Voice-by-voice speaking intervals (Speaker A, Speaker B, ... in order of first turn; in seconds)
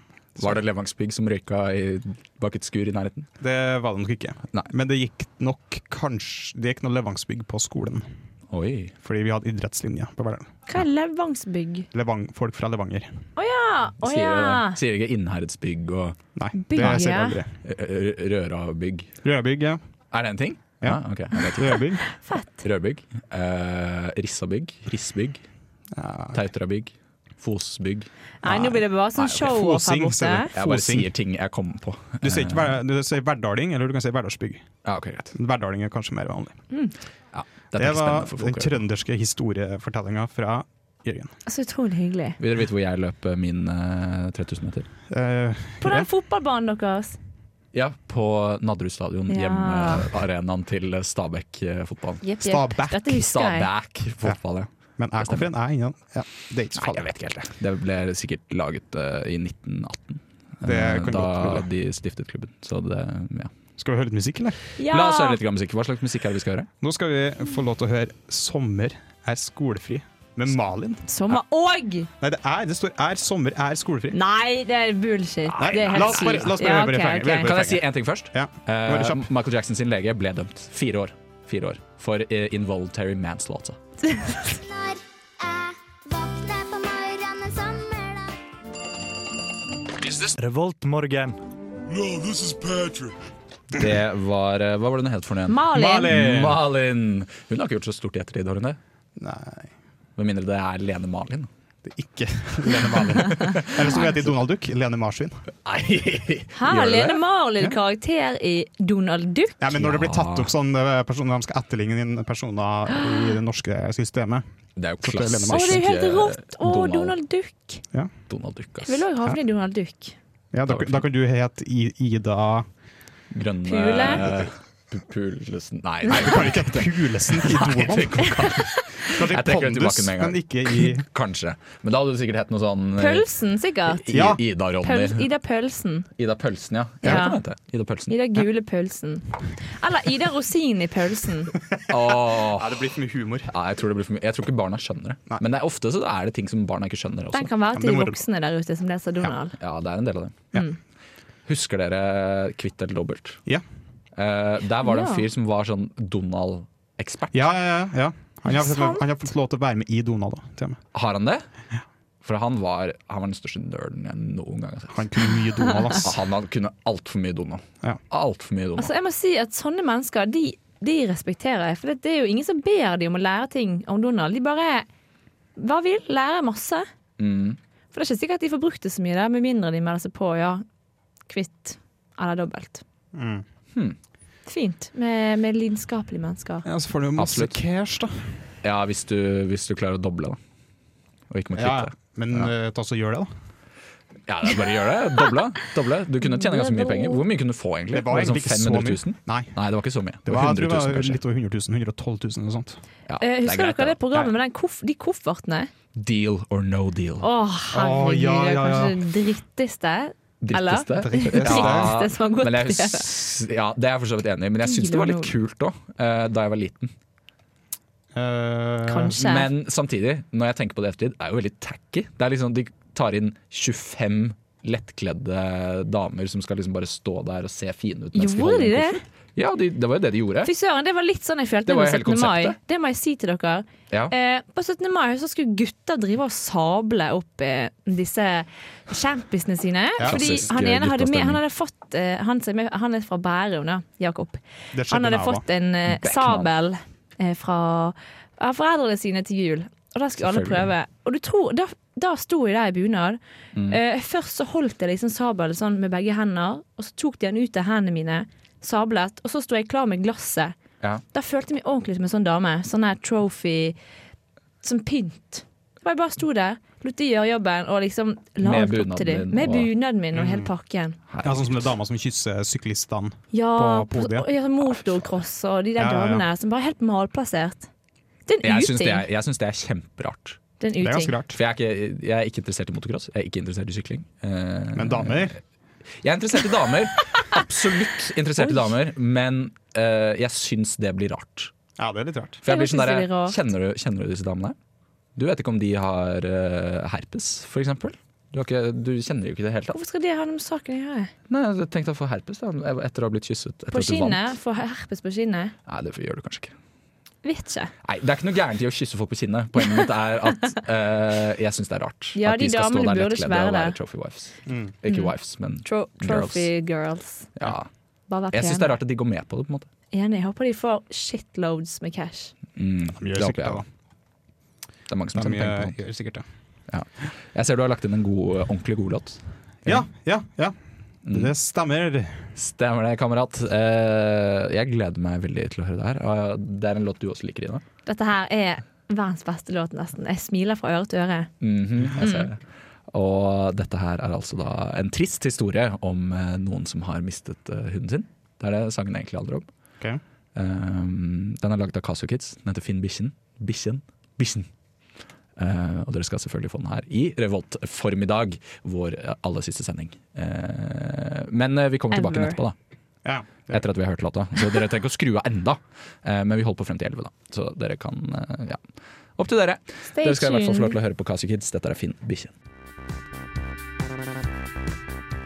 Speaker A: 0.4-3.3, 8.5-8.9, 14.0-16.2, 16.8-17.0, 17.6-19.1, 20.1-25.4, 26.3-28.1, 29.2-29.4, 30.5-32.8, 34.9-35.3, 37.3-38.8, 42.4-44.9, 47.7-52.2, 53.0-55.5, 56.8-63.5, 64.8-66.7, 75.5-76.5, 77.4-83.8, 93.7-98.8, 100.2-101.5, 103.4-104.1, 105.7-107.2, 109.7-110.5, 114.8-117.2, 118.3-119.0, 120.7-121.0, 123.3-133.3, 134.0-135.3, 136.2-138.2, 141.9-142.8, 143.5-147.5, 149.6-150.5, 151.5-153.4, 154.2-157.5, 160.9-161.4, 162.2-165.2, 166.0-168.9, 177.2-177.6, 187.2-187.6, 188.6-190.4, 191.3-192.5, 194.3-201.2, 203.1-204.0, 205.9-207.3, 210.4-216.9, 219.2-230.5, 231.7-232.6, 240.1-241.4, 245.9-246.5, 250.2-250.7, 268.4-269.7, 271.1-271.7, 278.4-280.4, 281.3-285.4, 286.0-291.5, 292.4-294.6, 295.2-299.8, 301.3-304.3, 305.7-306.6, 307.8-316.5, 317.4-317.7, 318.3-319.7, 322.6-323.6, 324.9-325.8, 326.7-329.9, 331.1-331.3, 332.4-337.6, 341.4-342.4, 342.9-349.5, 350.4-354.5, 355.4-362.6, 363.5-368.6, 369.2-372.3
Speaker B: 3.4-8.1, 9.0-10.5, 11.9-13.3, 16.4-17.6, 19.2-19.8, 20.8-22.0, 25.9-26.4, 28.4-28.8, 29.4-31.1, 32.2-34.6, 35.4-36.6, 37.8-41.3, 45.1-46.1, 52.4-53.1, 55.0-57.1, 60.6-61.7, 63.8-64.6, 66.8-71.1, 72.2-74.2, 75.6-79.3, 95.7-96.6, 99.2-99.7, 101.8-105.4, 109.6-114.5, 115.0-115.8, 120.5-122.7, 126.1-128.4, 129.1-131.1, 134.1-134.4, 141.9-143.5, 147.7-148.2, 157.3-160.8, 164.9-166.2, 183.1-183.4, 186.7-188.4, 191.6-193.3, 197.9-199.6, 200.2-202.8, 207.7-209.0, 211.0-211.9, 218.1-219.2, 240.0-240.4, 244.7-245.4, 270.1-270.5, 271.2-274.3, 275.8-276.3, 280.8-281.4, 284.7-285.4, 291.8-292.4, 314.5-314.7, 323.0-323.7, 325.1-326.2, 329.6-332.3, 363.0-363.6
Speaker C: 10.7-11.9, 13.4-14.8, 16.7-17.4, 22.2-22.6, 28.4-30.5, 41.5-42.4, 45.8-47.2, 49.3-50.1, 52.2-53.7, 64.8-65.4, 71.1-72.1, 74.1-77.5, 84.1-84.4, 95.5-96.1, 106.5-109.6, 115.5-117.8, 118.9-120.2, 123.7-124.3, 133.0-134.1, 134.8-136.1, 137.0-137.4, 138.1-141.5, 147.3-149.6, 154.8-155.2, 158.5-159.0, 168.8-174.9, 175.6-176.9, 177.9-180.6, 181.3-182.8, 184.5-186.7, 196.2-197.2, 203.2-205.7, 207.2-213.1, 214.6-215.3, 218.9-219.5, 228.2-229.0, 230.4-260.6, 261.1-263.8, 264.6-271.0, 273.3-277.7, 278.3-279.1, 280.6-281.2, 292.5-293.4, 299.7-301.1, 303.7-305.6, 307.2-307.7, 312.2-313.8, 315.6-317.3, 318.1-318.8, 319.9-322.3, 337.9-341.3, 342.0-342.3, 361.9-362.4, 369.9-370.8
Speaker D: 84.4-88.4
Speaker E: 90.3-93.2